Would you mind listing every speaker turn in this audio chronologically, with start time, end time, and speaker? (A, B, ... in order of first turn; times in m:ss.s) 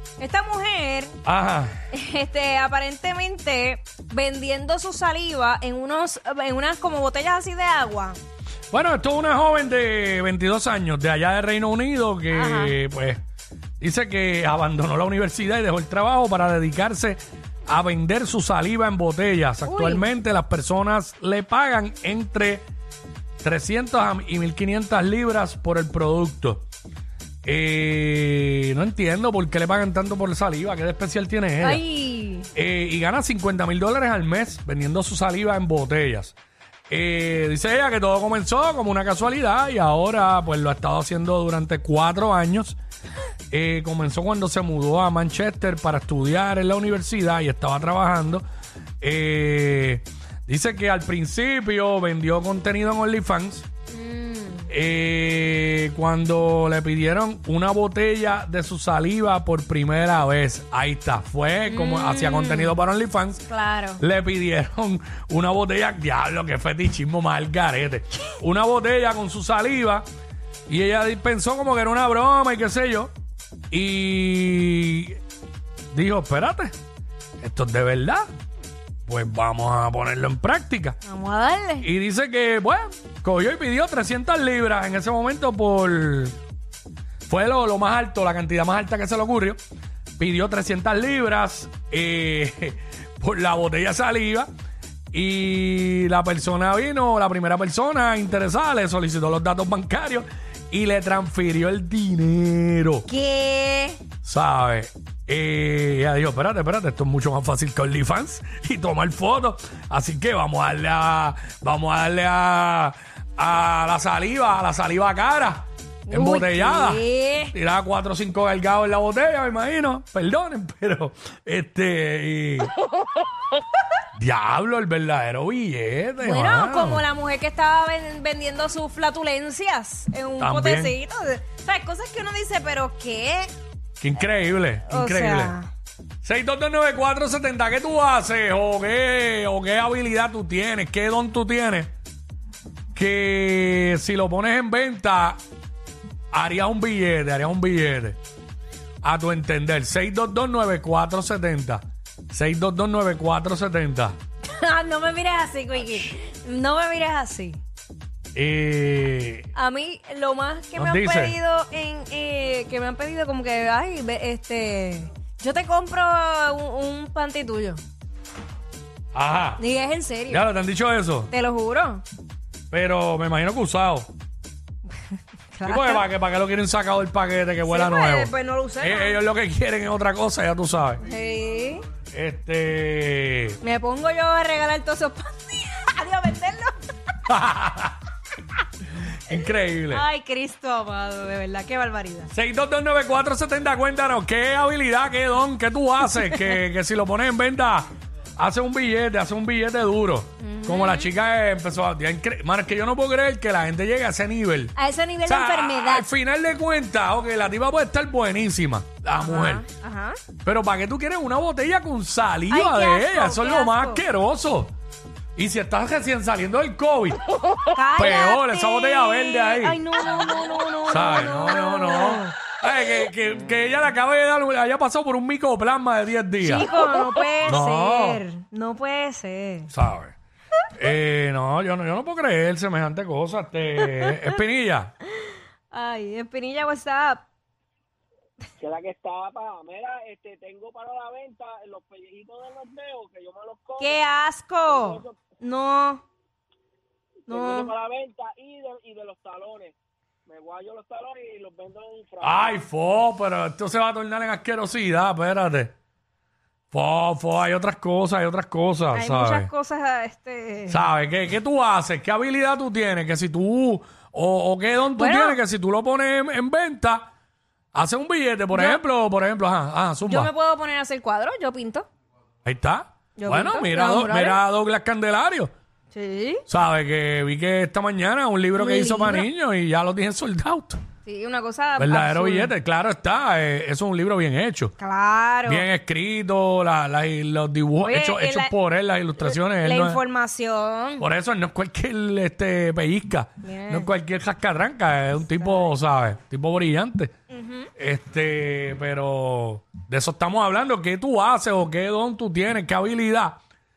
0:00.2-0:01.2 A
0:01.2-0:01.8 B
0:01.9-0:08.2 A
0:08.7-0:13.2 B
0:12.3-0:12.8 A
0:13.8-0:22.6 B
0:19.6-0:20.1 A
0:23.4-0:26.6 B
0:27.4-0:31.8 B
0:31.6-0:32.5 A
0:32.5-0:36.4 B
0:36.9-0:42.8 B
0:43.5-0:48.4 B
0:49.0-0:53.7 B
0:53.9-0:54.7 A
0:54.7-1:10.1 B
1:01.7-1:02.8 A
1:03.5-1:04.0 A
1:10.7-1:13.1 B
1:13.7-1:15.2 B
1:15.9-1:16.7 B
1:17.4-1:18.3 B
1:19.1-1:21.0 B
1:21.0-1:21.9 A
1:21.8-1:26.4 B
1:27.3-1:29.6 B
1:30.2-1:34.5 B
1:35.1-1:43.1 B
1:43.1-1:44.0 A
1:44.2-2:02.7 B
1:56.1-1:57.5 A
2:04.2-2:07.0 B
2:06.2-2:13.5 A
2:10.4-2:11.0 B
2:14.0-2:15.6 B
2:14.9-2:15.7 A
2:16.2-2:21.9 B
2:23.0-2:25.4 B
2:26.3-2:28.2 B
2:29.0-2:34.2 B
2:34.6-2:37.6 A
2:38.4-2:39.5 B
2:39.5-2:47.8 A
2:40.8-2:41.4 B
2:49.1-2:49.6 B
2:49.6-2:50.4 A
2:50.3-2:51.3 B
2:51.3-2:52.0 A
2:52.7-2:54.1 B
2:55.5-2:56.0 A
2:55.6-3:01.0 B
2:57.6-2:59.2 A
3:01.0-3:01.8 A
3:02.1-3:03.6 B
3:03.6-3:06.8 A
3:07.3-3:08.0 B
3:09.3-3:10.0 B
3:09.9-3:12.3 A
3:12.3-3:24.7 B
3:20.4-3:21.1 A
3:24.8-3:26.1 A
3:25.3-3:29.6 B
3:29.2-3:30.2 A
3:30.4-3:34.7 B
3:32.5-3:34.0 A
3:35.4-3:37.2 B
3:37.7-3:42.3 A
3:38.0-3:39.8 B
3:40.9-3:46.7 B
3:46.4-3:49.7 A
3:47.5-3:48.2 B
3:49.7-3:50.2 B
3:50.8-3:54.9 B
3:55.7-3:57.2 A
3:58.6-4:04.0 C
4:03.8-4:06.0 A
4:04.7-4:05.2 C
4:07.3-4:07.7 A
4:07.3-4:12.6 C
4:12.2-4:15.7 B
4:16.7-4:19.5 B
4:18.9-4:20.8 A
4:20.7-4:27.1 B
4:25.0-4:25.4 A
4:27.7-4:30.3 B
4:28.5-4:28.8 A
4:30.0-4:31.9 A
4:32.4-4:35.5 B
4:33.2-4:34.4 A
4:35.9-4:36.4 A
4:36.5-4:40.8 B
4:38.6-4:39.3 A
4:41.0-4:42.5 A
4:41.8-4:44.7 B
4:44.8-4:45.7 A
4:45.5-4:50.0 B
4:47.8-4:48.5 A
4:49.2-4:51.0 A
4:51.0-4:57.1 B
4:53.4-4:53.9 A
4:55.4-4:55.7 A
4:57.3-4:57.7 A
4:57.8-5:03.4 B